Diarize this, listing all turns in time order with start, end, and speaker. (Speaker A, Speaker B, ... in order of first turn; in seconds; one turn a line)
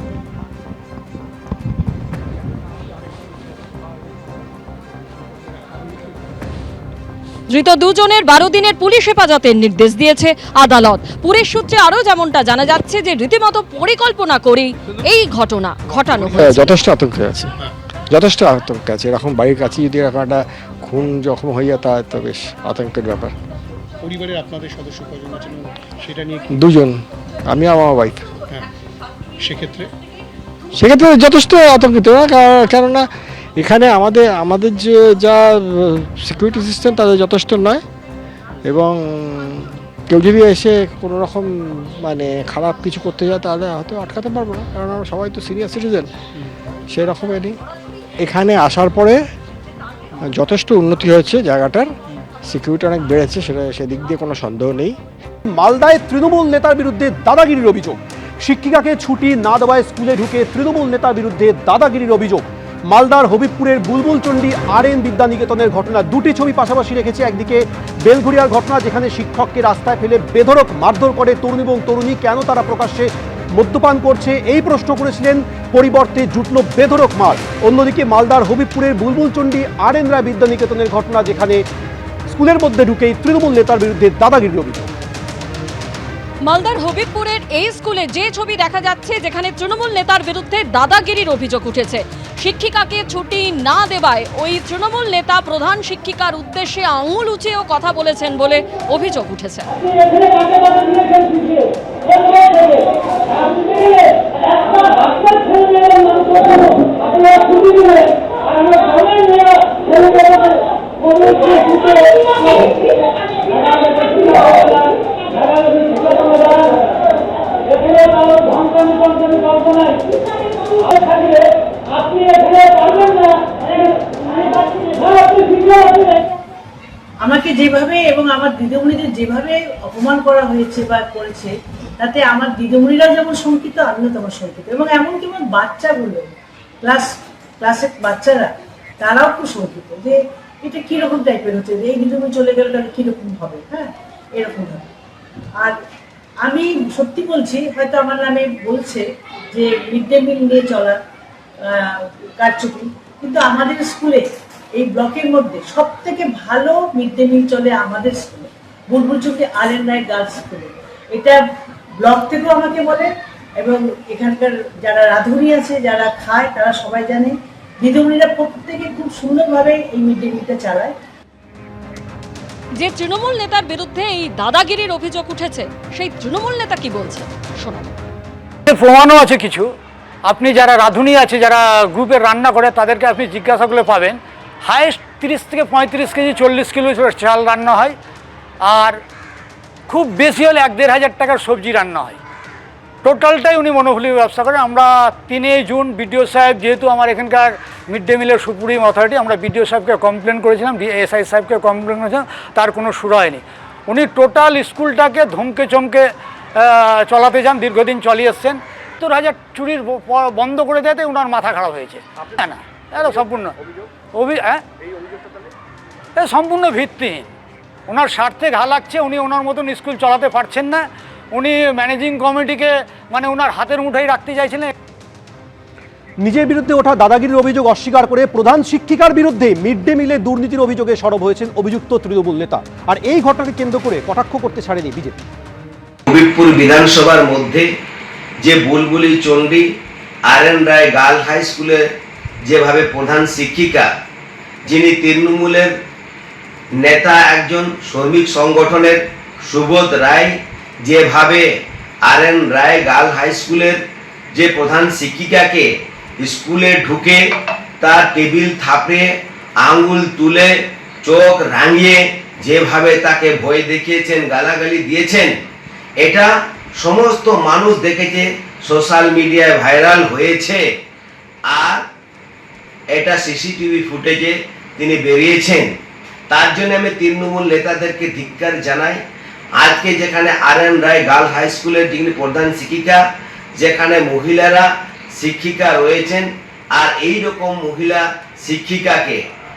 Speaker A: 7.5-16.8
Speaker B: 16.4-17.5
Speaker B: 18.1-23.3
Speaker C: 24.0-26.5
Speaker B: 26.5-28.4
Speaker C: 29.4-29.9
Speaker B: 30.8-33.0
Speaker B: 33.6-37.8
Speaker B: 38.6-46.1
Speaker B: 46.9-47.6
Speaker B: 48.2-49.2
Speaker B: 50.3-51.9
Speaker B: 52.5-55.0
Speaker D: 55.5-81.7
Speaker D: 82.3-84.9
Speaker A: 86.4-100.3
Speaker E: 127.2-136.3
Speaker E: 136.8-137.1
Speaker E: 137.6-144.9
Speaker E: 146.4-151.0
Speaker E: 151.7-154.2
Speaker E: 154.8-161.4
Speaker E: 162.0-171.0
Speaker A: 172.8-177.9
Speaker F: 178.7-179.7
Speaker F: 180.3-188.0
Speaker F: 188.7-189.0
Speaker F: 189.9-192.2
Speaker F: 193.0-213.6
Speaker F: 214.1-214.6
Speaker F: 216.2-217.3
Speaker F: 217.9-224.7
Speaker D: 226.2-235.2
Speaker G: 236.1-237.7
Speaker G: 238.4-239.7
Speaker G: 240.3-241.8
Speaker G: 242.5-243.9
Speaker G: 244.7-245.7
Speaker G: 246.8-251.4
Speaker G: 252.1-253.8
Speaker G: 254.3-255.7
Speaker G: 256.2-257.2
Speaker G: 257.8-259.1
Speaker G: 259.6-265.3
Speaker G: 266.0-270.6
Speaker G: 271.5-271.8
Speaker G: 272.9-275.7
Speaker G: 276.3-279.0
Speaker G: 279.6-283.0
Speaker G: 283.6-289.2